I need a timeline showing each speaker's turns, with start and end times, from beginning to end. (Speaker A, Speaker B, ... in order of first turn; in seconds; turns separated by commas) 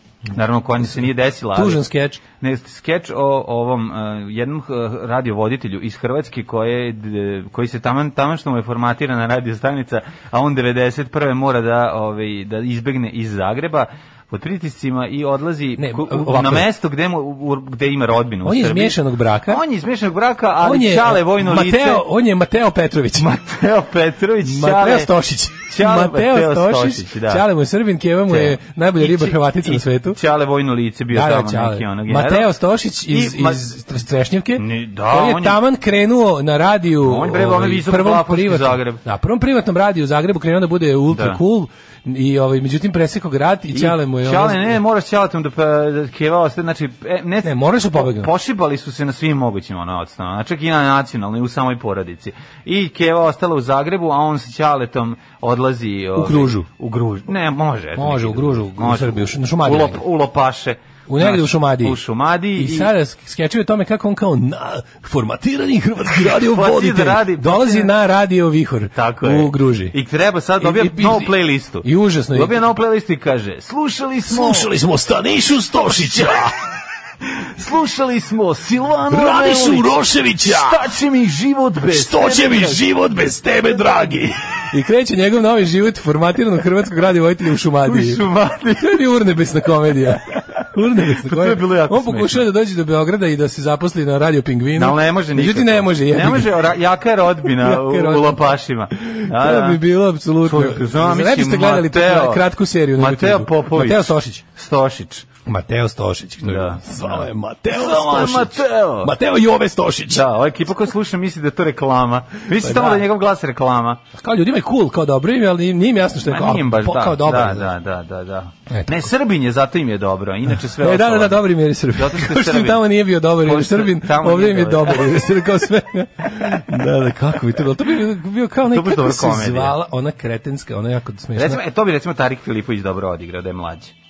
Speaker A: 0.3-1.8, Speaker B: 0.8-2.2, Speaker A: 2.4-19.0, Speaker B: 15.8-16.7, Speaker B: 18.4-19.6, Speaker A: 19.5-22.0, Speaker B: 20.6-23.3, Speaker A: 23.2-25.1, Speaker B: 24.4-30.2, Speaker A: 25.7-27.4, Speaker A: 28.3-32.5, Speaker B: 31.1-44.8, Speaker A: 33.1-33.6, Speaker A: 34.6-35.6, Speaker A: 37.1-39.0, Speaker A: 43.8-62.9, Speaker B: 47.4-48.3, Speaker B: 56.1-56.7, Speaker B: 58.0-60.0, Speaker B: 61.1-70.0, Speaker A: 66.4-67.9, Speaker A: 69.0-74.7, Speaker B: 70.6-72.7, Speaker B: 74.3-76.6, Speaker A: 77.6-79.8, Speaker B: 79.1-80.9, Speaker A: 80.5-82.8, Speaker B: 81.8-96.7, Speaker A: 87.9-88.8, Speaker A: 91.4-92.3, Speaker A: 94.8-99.8, Speaker B: 97.5-104.4, Speaker A: 100.5-102.4, Speaker A: 103.0-104.0, Speaker A: 104.6-105.2, Speaker B: 105.5-110.3, Speaker A: 106.5-107.2, Speaker A: 107.8-109.1, Speaker A: 110.2-114.0, Speaker B: 112.6-113.1, Speaker B: 114.2-117.8, Speaker A: 116.3-121.3, Speaker B: 118.7-119.1, Speaker B: 120.7-131.6, Speaker A: 122.0-122.8, Speaker A: 123.5-124.9, Speaker A: 128.8-129.6, Speaker A: 131.4-133.9